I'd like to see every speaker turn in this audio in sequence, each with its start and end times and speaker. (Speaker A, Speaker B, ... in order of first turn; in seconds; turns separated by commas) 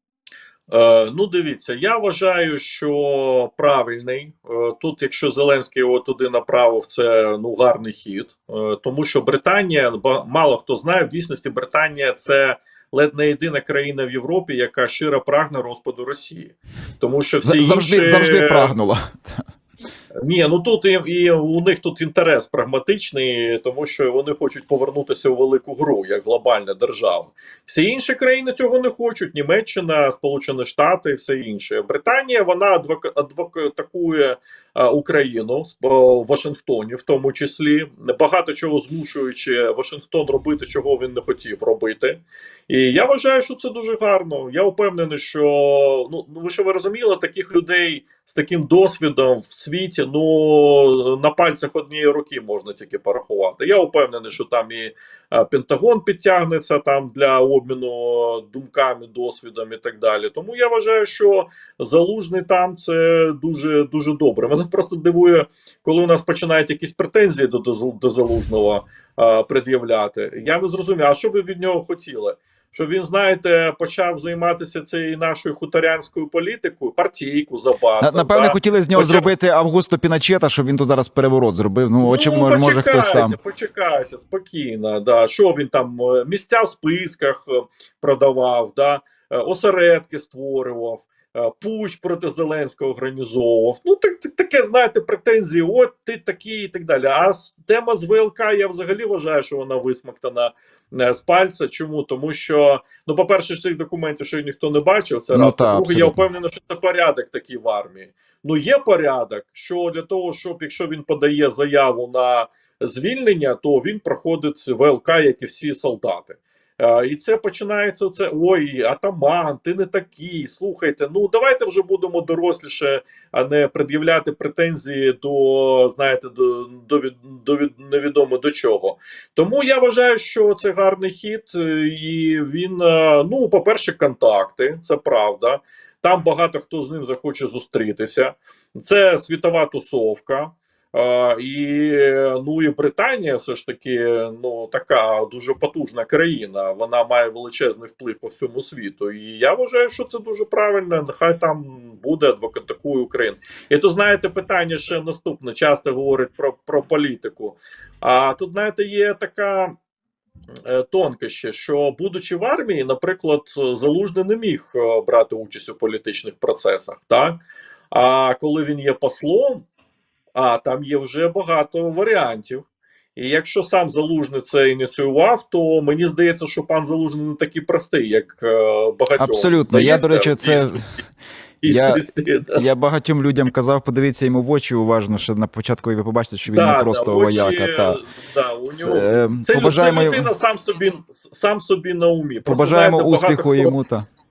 Speaker A: 0.7-18.7, Speaker B: 17.4-19.4, Speaker A: 20.2-79.3, Speaker B: 78.0-83.3, Speaker A: 82.0-159.7, Speaker B: 105.3-106.2, Speaker A: 160.6-167.3, Speaker A: 167.9-169.6, Speaker A: 170.3-180.8, Speaker B: 179.2-180.9, Speaker A: 181.6-182.6, Speaker B: 181.6-182.0, Speaker B: 182.5-188.0, Speaker A: 186.5-193.7, Speaker B: 188.7-190.3, Speaker B: 192.4-194.1